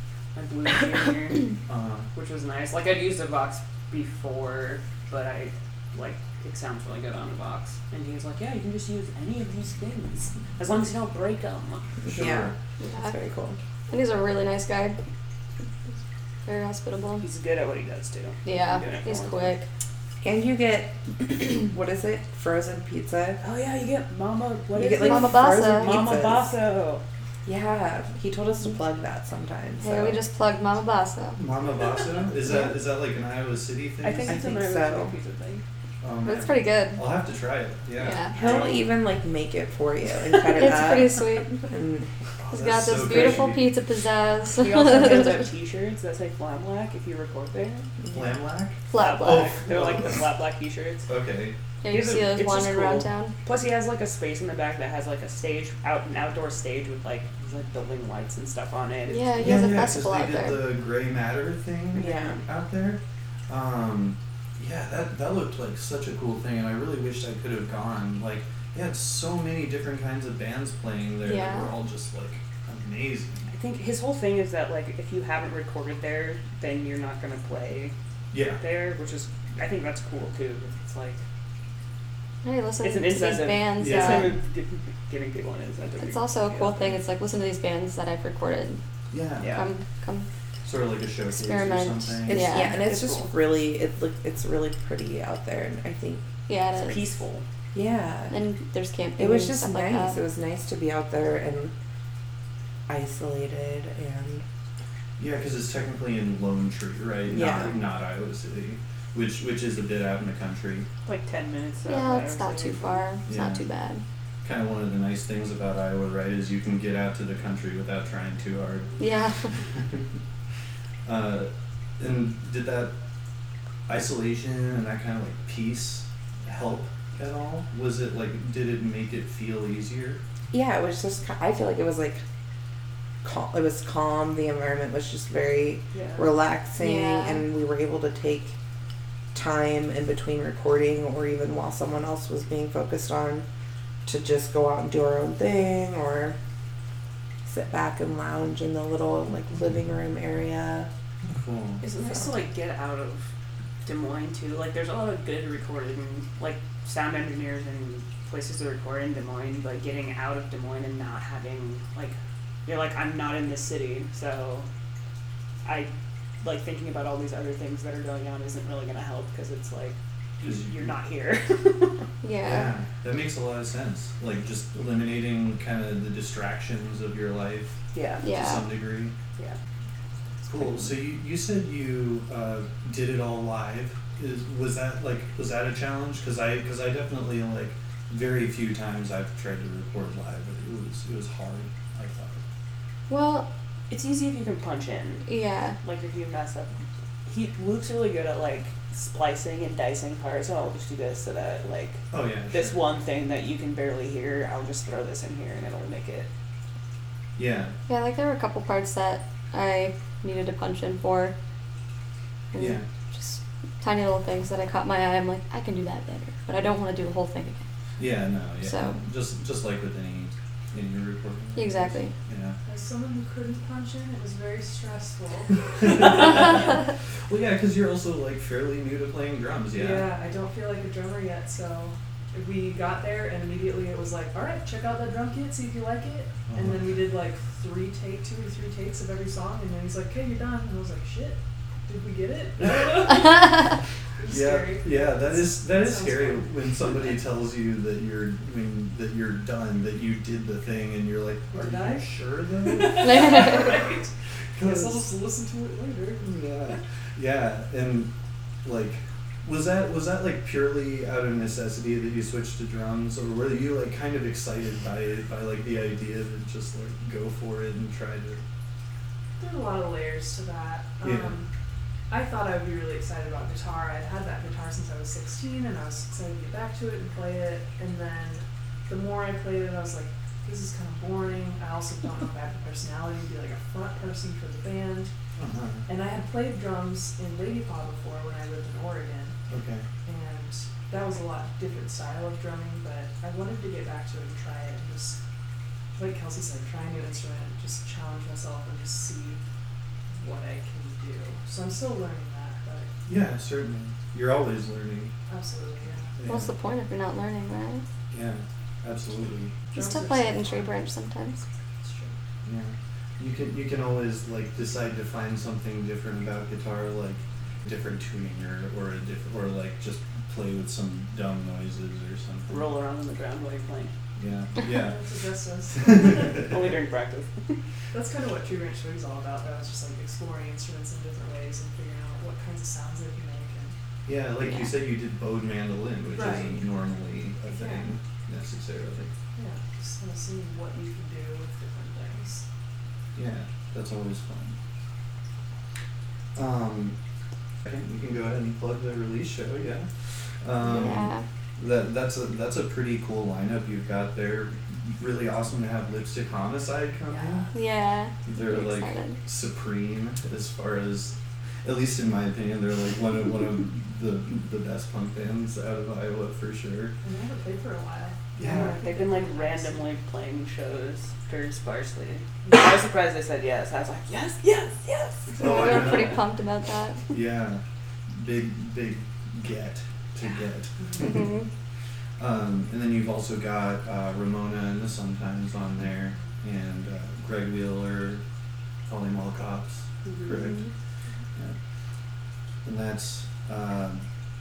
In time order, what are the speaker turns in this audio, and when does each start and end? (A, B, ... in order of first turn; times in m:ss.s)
0:00.3-0:01.5 A
0:01.7-0:02.1 B
0:02.1-0:11.9 A
0:12.0-0:13.6 C
0:12.0-0:12.5 B
0:12.8-0:13.1 D
0:13.9-0:15.0 D
0:16.4-0:17.2 D
0:17.2-0:19.5 A
0:18.4-0:19.7 D
0:20.2-0:23.4 C
0:23.4-0:27.0 A
0:24.7-0:26.5 C
0:25.0-0:26.0 D
0:27.4-0:30.2 C
0:29.8-0:31.4 D
0:31.4-0:34.4 B
0:34.0-0:35.6 A
0:34.2-0:35.1 C
0:36.0-0:38.2 B
0:36.2-0:37.0 D
0:38.0-0:38.3 D
0:38.3-0:38.9 A
0:38.3-0:42.1 C
0:40.5-0:41.6 D
0:42.4-0:43.7 B
0:42.5-0:45.5 D
0:44.6-0:47.9 A
0:48.1-0:50.2 B
0:48.9-0:49.6 D
0:48.9-0:51.1 A
0:51.1-0:51.6 B
0:51.8-0:53.3 D
0:51.9-0:59.6 A
0:59.1-1:00.7 D
0:59.4-1:13.5 B
1:01.9-1:02.4 A
1:02.0-1:02.4 C
1:11.2-1:11.7 D
1:13.5-1:17.9 A
1:18.3-1:18.6 B
1:18.6-1:21.2 A
1:22.4-1:24.3 D
1:22.8-1:27.0 A
1:23.8-1:24.4 B
1:26.0-1:28.8 D
1:29.1-1:29.6 B
1:29.4-1:29.7 A
1:29.4-1:30.3 D
1:30.6-1:32.6 B
1:31.3-1:32.8 D
1:32.2-1:36.2 C
1:32.7-1:33.3 A
1:36.5-1:37.0 D
1:36.7-1:37.4 A
1:37.7-1:38.4 C
1:38.3-1:40.2 D
1:39.2-1:41.7 C
1:42.9-1:44.4 C
1:45.2-1:50.9 B
1:47.3-1:47.8 C
1:51.0-1:53.0 A
1:51.8-1:54.0 D
1:53.3-1:53.6 B
1:54.4-1:59.0 B
1:59.0-1:59.5 D
1:59.6-2:00.1 B
2:01.0-2:02.9 B
2:03.9-2:10.2 B
2:10.5-2:12.2 C
2:13.2-2:18.5 C
2:15.9-2:16.3 A
2:16.8-2:17.4 D
2:19.3-2:23.4 C
2:24.0-2:26.4 C
2:27.4-2:30.9 C
2:31.2-2:31.8 B
2:31.8-2:33.3 A
2:33.8-2:44.6 A
2:45.6-2:45.9 A
2:46.4-2:52.0 A
2:50.4-2:51.0 B
2:52.2-2:52.7 D
2:52.4-2:59.1 B
2:57.9-2:58.2 A
2:58.2-2:58.7 D
3:00.5-3:12.4 B
3:13.1-3:13.5 D
3:13.9-3:15.3 A
3:15.2-3:15.8 D
3:15.8-3:26.3 A
3:22.1-3:22.8 B
3:27.4-3:27.7 B
3:27.9-3:31.3 D
3:32.5-3:37.6 D
3:32.5-3:32.8 B
3:38.0-3:42.6 B
3:38.6-3:39.0 D
3:41.6-3:42.1 D
3:42.6-3:46.7 E
3:45.7-3:50.1 B
3:49.7-4:07.1 E
3:56.5-3:57.0 B
4:02.6-4:03.5 B
4:04.2-4:13.8 B
4:11.5-4:16.2 E
4:13.0-4:13.6 D
4:14.5-4:15.0 B
4:16.2-4:18.1 B
4:18.6-4:28.4 B
4:29.4-4:31.5 E
4:31.0-4:31.3 B
4:32.1-4:45.1 E
4:45.4-4:45.9 B
4:45.9-4:49.4 E
4:49.5-4:49.9 B
4:50.0-4:55.2 E
4:55.9-4:59.4 E
5:00.1-5:03.0 E
5:03.1-5:05.1 B
5:05.3-5:06.1 E
5:06.2-5:06.5 B
5:06.2-5:07.8 D
5:08.1-5:09.6 B
5:09.7-5:10.7 E
5:09.7-5:11.4 D
5:11.8-5:12.1 E
5:12.4-5:22.7 B
5:22.5-5:23.9 A
5:24.2-5:25.0 B
5:24.6-5:26.5 E
5:25.7-5:26.7 B
5:26.4-5:27.6 A
5:27.9-5:33.7 E
5:34.0-5:39.1 B
5:36.1-5:36.6 E
5:37.5-5:37.9 E
5:39.3-5:42.4 E
5:43.1-5:44.6 B
5:46.3-5:47.0 B
5:47.6-5:49.9 B
5:50.4-5:57.5 B
5:50.6-5:51.2 D
5:57.0-5:57.5 E
5:57.5-5:59.2 D
5:58.2-6:06.9 B
6:07.0-6:09.9 E
6:08.4-6:08.8 B
6:08.4-6:16.0 A
6:15.4-6:16.2 B
6:15.4-6:17.0 D
6:17.1-6:21.3 B
6:20.8-6:21.0 E
6:21.0-6:21.5 D
6:22.2-6:28.2 B
6:28.9-6:30.7 B
6:32.6-6:34.0 B